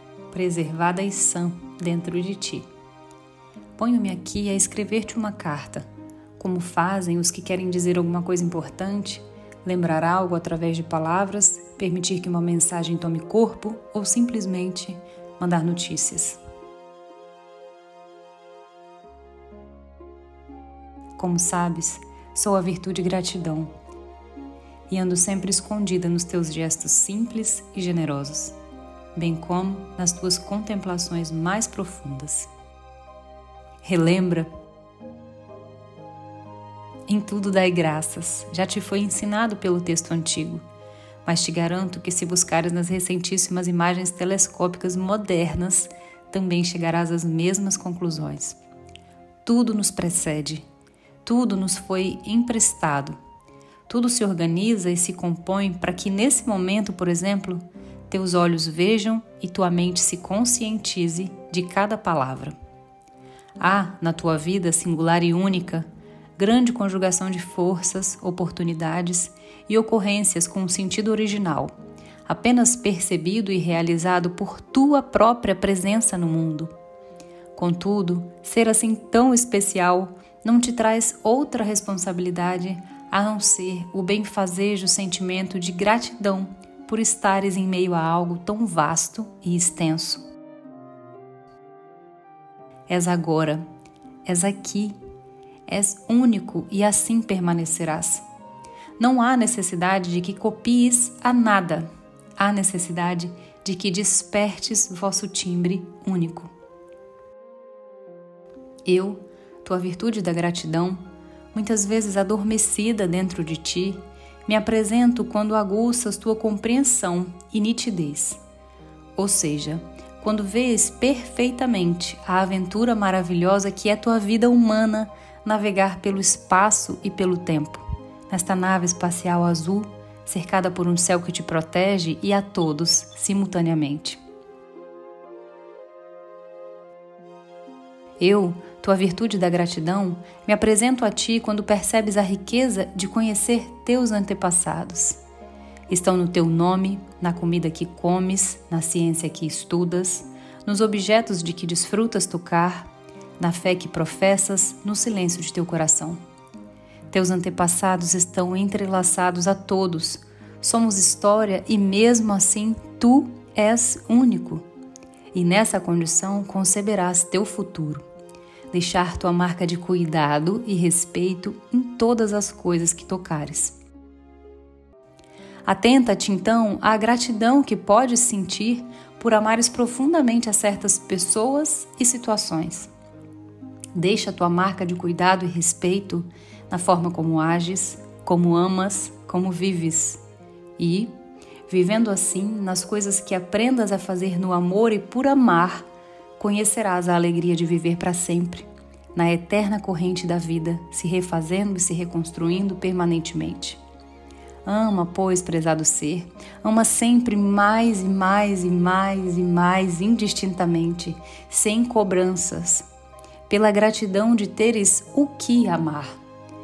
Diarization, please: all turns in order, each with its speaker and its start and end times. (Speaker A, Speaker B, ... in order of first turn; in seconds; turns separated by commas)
Speaker A: 0.3-2.6, Speaker A: 3.8-5.8, Speaker A: 6.4-16.4, Speaker A: 21.2-23.7, Speaker A: 24.9-28.6, Speaker A: 29.1-32.5, Speaker A: 33.8-34.5, Speaker A: 37.1-40.6, Speaker A: 41.2-48.6, Speaker A: 49.4-50.6, Speaker A: 51.2-53.2, Speaker A: 53.9-62.5, Speaker A: 63.6-65.8, Speaker A: 66.4-71.7, Speaker A: 72.2-76.7, Speaker A: 77.5-90.2, Speaker A: 92.9-93.7, Speaker A: 94.2-95.0, Speaker A: 95.7-98.2, Speaker A: 99.0-106.5, Speaker A: 108.8-118.4, Speaker A: 119.2-134.2, Speaker A: 138.2-145.2, Speaker A: 145.9-156.2, Speaker A: 157.1-164.7, Speaker A: 165.3-168.0, Speaker A: 168.7-173.8, Speaker A: 175.6-182.9, Speaker A: 183.9-190.2, Speaker A: 190.8-191.1, Speaker A: 191.7-195.9, Speaker A: 196.4-203.8, Speaker A: 204.6-212.8, Speaker A: 213.5-216.2